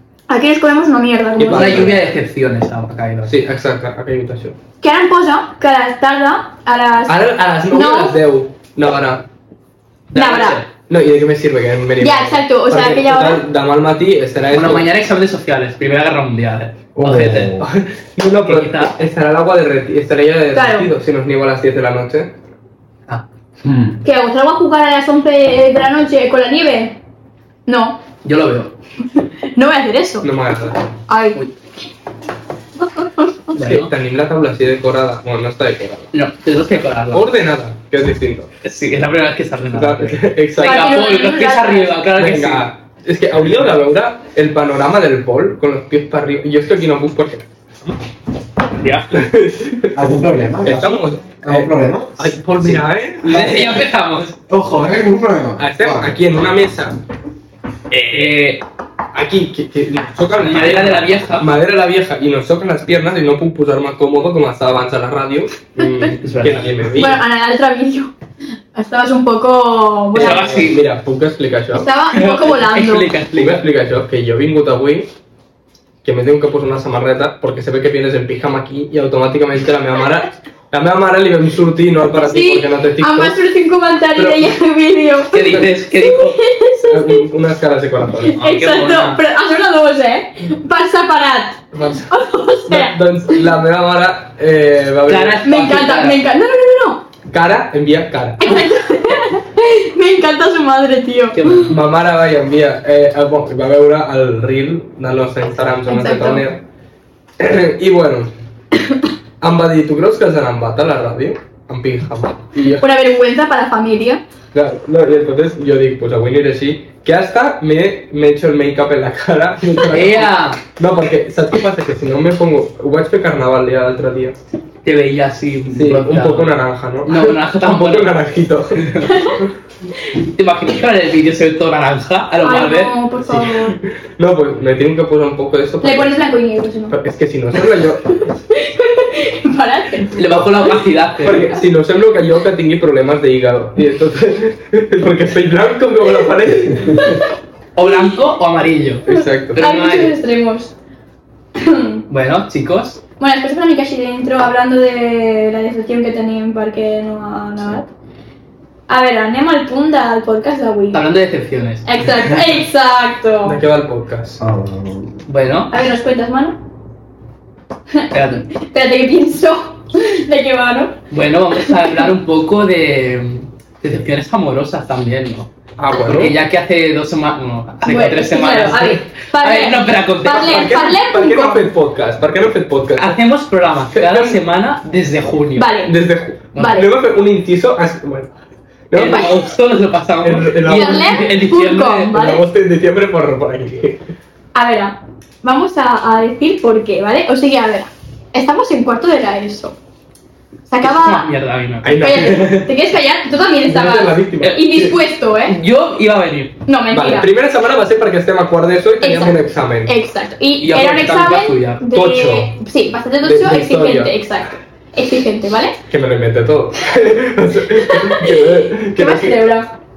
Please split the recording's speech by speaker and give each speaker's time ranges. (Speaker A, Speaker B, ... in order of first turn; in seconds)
Speaker A: 0.3-2.0, 4.8-8.2, 10.1-10.6, 12.0-13.4, 20.5-20.9, 24.0-27.0, 27.7-28.0, 29.5-30.3, 31.1-31.4, 32.8-33.5, 40.6-42.0, 65.8-66.2, 67.0-68.1, 68.8-70.6, 71.7-73.1, 82.2-87.3, 88.2-93.4, 95.5-97.0, 98.4-101.6, 105.9-106.5, 112.6-114.2, 129.1-129.4, 132.4-133.8, 135.8-136.9, 138.1-140.4, 147.0-147.3, 149.1-150.7, 151.6-152.1, 153.2-157.9, 158.9-161.0, 161.8-163.6, 165.7-166.6, 167.9-171.0, 177.8-181.7, 185.6-185.9, 186.5-186.9, 190.7-192.4, 194.5-199.8, 200.7-201.3, 201.8-205.6, 206.7-207.3, 209.0-215.8, 217.8-219.8
Speaker B: 1.4-2.0, 3.3-4.6, 7.1-9.3, 10.9-14.9, 17.6-22.4, 30.2-31.5, 33.6-36.1, 37.1-38.5, 39.7-41.0, 42.2-47.5, 49.1-50.1, 50.6-53.9, 55.6-57.0, 59.1-67.2, 70.1-71.9, 73.3-75.1, 76.0-83.4, 84.2-84.5, 86.9-88.4, 91.7-92.1, 92.7-95.4, 97.3-98.7, 101.7-106.6, 107.4-108.3, 109.4-112.8, 114.5-124.4, 125.7-128.8, 133.3-136.1, 136.9-138.2, 141.2-147.2, 149.1-149.6, 163.4-164.4, 175.8-176.4, 180.2-183.2, 183.9-184.4, 185.8-188.4, 188.9-189.4, 190.2-191.1, 192.1-194.0, 201.8-202.7, 203.6-204.7, 206.9-209.9, 211.8-212.6, 213.2-214.1, 215.9-219.4
Speaker C: 1.4-3.3, 10.1-10.7, 14.5-17.6, 18.5-19.0, 28.2-28.8, 33.5-33.9, 36.1-37.3, 38.6-42.7, 48.8-49.1, 52.7-54.5, 57.9-58.6, 60.4-61.5, 66.2-66.8, 70.2-70.8, 72.1-73.6, 85.3-86.4, 88.3-89.2, 95.1-96.2, 101.4-101.8, 119.9-120.6, 124.8-128.2, 128.8-129.1, 130.2-132.9, 140.1-141.5, 147.8-150.2, 152.1-153.0, 160.9-161.9, 165.3-165.7, 168.1-168.5, 171.1-180.6, 183.0-185.8, 188.9-192.2, 200.8-202.5, 204.4-204.9, 205.5-206.6, 210.6-211.8
Speaker D: 17.0-17.7, 23.6-24.0, 49.9-52.8, 54.5-56.2, 164.4-165.2